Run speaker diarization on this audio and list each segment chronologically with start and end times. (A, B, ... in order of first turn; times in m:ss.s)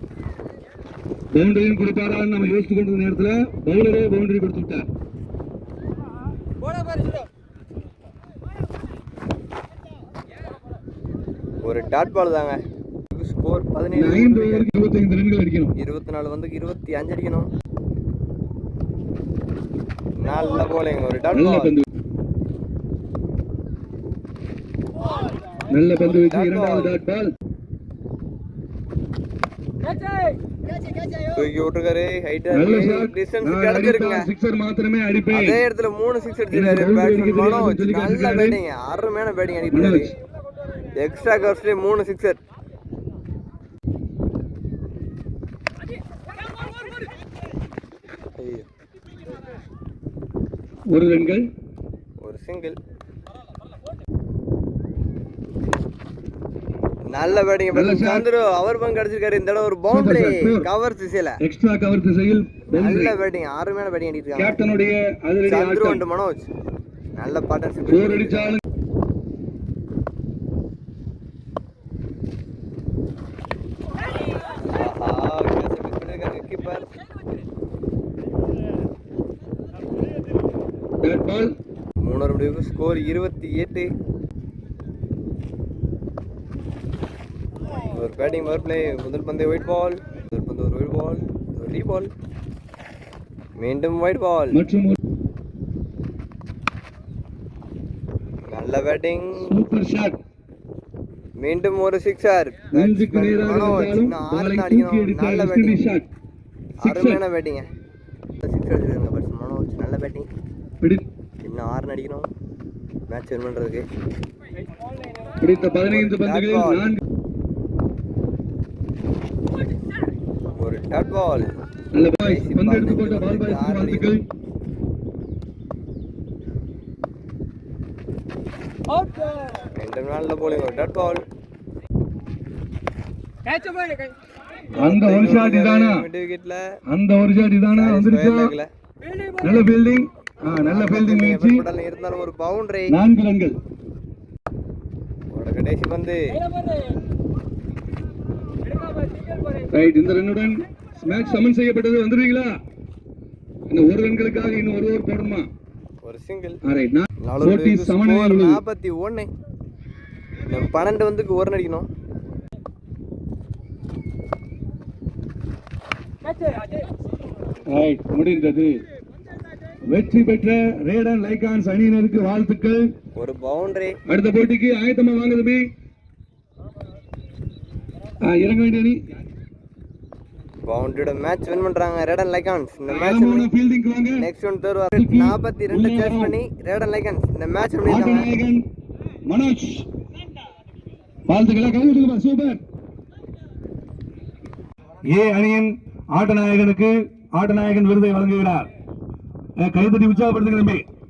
0:01.3-0:04.9 A
0:11.6-0:14.7 B
0:13.9-0:15.7 A
0:15.8-0:17.5 B
0:20.2-0:21.8 B
0:21.4-0:21.8 A
0:25.7-0:27.3 A
0:26.0-0:27.0 B
0:31.3-0:34.3 B
0:32.5-0:35.6 A
0:35.3-0:40.1 B
0:36.5-0:38.6 A
0:39.7-0:40.1 A
0:41.0-0:42.4 B
0:48.4-0:48.7 B
0:50.9-0:51.5 A
0:52.2-0:52.8 B
0:57.1-1:01.4 B
0:57.7-0:58.3 A
0:59.9-1:00.7 A
1:01.4-1:03.2 A
1:02.7-1:04.6 B
1:04.4-1:06.0 A
1:05.4-1:06.5 B
1:07.2-1:08.6 B
1:07.9-1:08.6 A
1:14.7-1:16.9 B
1:21.0-1:21.6 A
1:22.0-1:23.9 B
1:27.9-1:32.1 B
1:33.6-1:34.6 B
1:34.5-1:35.0 A
1:38.5-1:39.6 B
1:39.4-1:40.2 A
1:41.4-1:45.8 B
1:42.7-1:46.1 A
1:46.8-1:47.7 B
1:46.8-1:47.2 A
1:48.4-1:50.3 B
1:51.4-1:52.3 B
1:53.1-1:53.8 B
1:55.4-1:57.0 A
1:55.8-1:56.9 B
2:00.5-2:01.5 B
2:01.9-2:04.2 A
2:02.2-2:04.1 B
2:09.8-2:11.2 B
2:14.8-2:16.6 B
2:14.8-2:16.0 A
2:16.9-2:18.6 A
2:17.7-2:18.7 B
2:19.4-2:21.7 A
2:20.5-2:23.0 B
2:22.9-2:23.6 A
2:25.3-2:26.4 B
2:29.7-2:32.5 A
2:33.7-2:35.5 A
2:36.0-2:36.6 B
2:36.7-2:38.6 A
2:37.2-2:39.3 B
2:40.5-2:41.9 B
2:47.7-2:48.7 A
2:49.9-2:52.8 A
2:53.2-2:53.9 B
2:54.1-2:55.6 A
2:58.2-2:59.0 A
3:00.6-3:03.5 B
3:02.9-3:04.3 A
3:04.2-3:08.3 B
3:05.0-3:06.4 A
3:07.9-3:08.6 A
3:09.3-3:09.9 A
3:11.3-3:12.6 A
3:15.1-3:18.7 A
3:19.6-3:20.8 A